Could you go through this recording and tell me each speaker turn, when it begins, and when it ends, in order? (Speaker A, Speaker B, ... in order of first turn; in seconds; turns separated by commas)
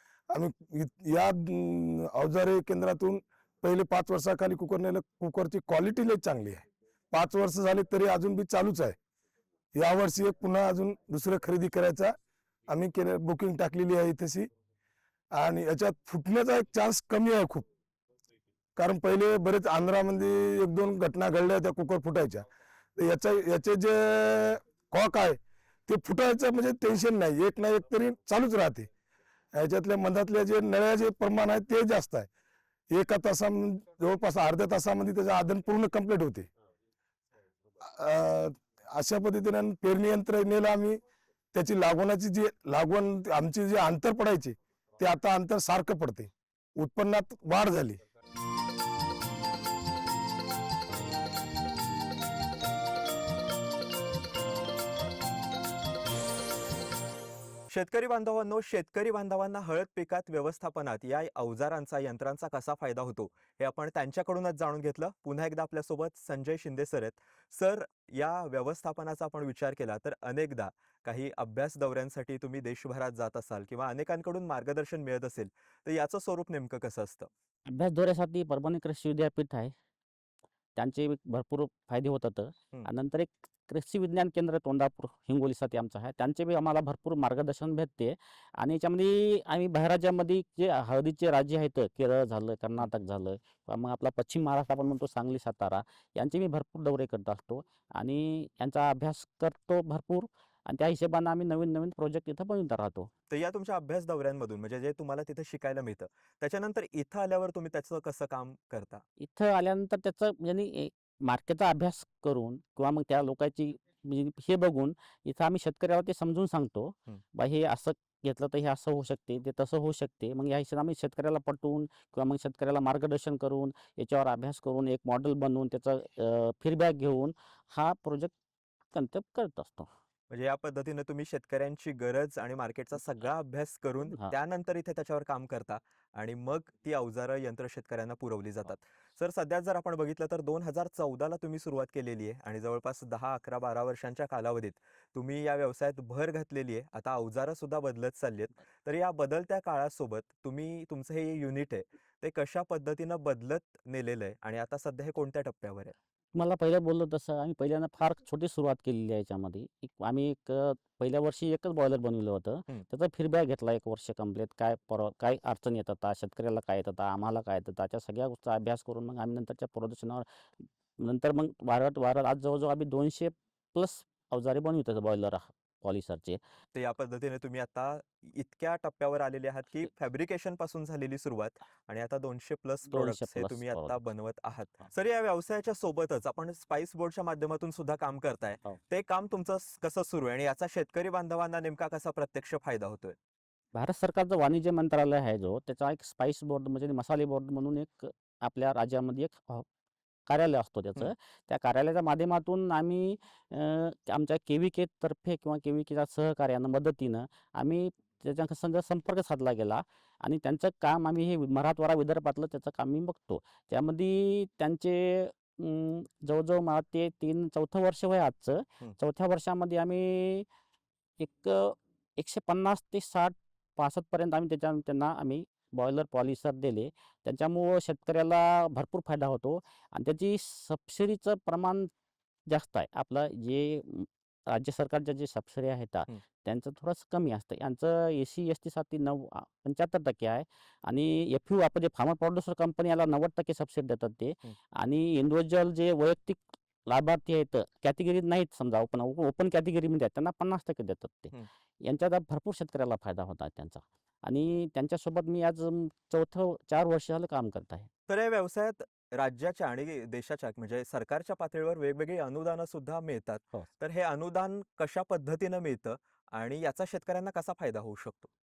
Speaker A: 0.3-9.0, Speaker A: 9.8-12.2, Speaker A: 12.7-14.5, Speaker A: 15.3-17.7, Speaker A: 18.8-28.9, Speaker A: 29.6-32.3, Speaker A: 32.9-36.5, Speaker A: 37.8-41.0, Speaker A: 41.5-48.0, Speaker B: 57.7-77.3, Speaker C: 77.7-79.7, Speaker C: 80.8-103.1, Speaker B: 103.3-109.0, Speaker C: 109.2-128.3, Speaker C: 128.9-129.9, Speaker B: 130.3-155.9, Speaker C: 156.3-170.2, Speaker C: 171.0-176.4, Speaker B: 176.7-193.2, Speaker C: 182.9-184.1, Speaker C: 193.8-199.7, Speaker C: 200.3-220.5, Speaker C: 221.2-231.9, Speaker C: 232.5-251.3, Speaker C: 251.8-257.9, Speaker B: 258.1-268.3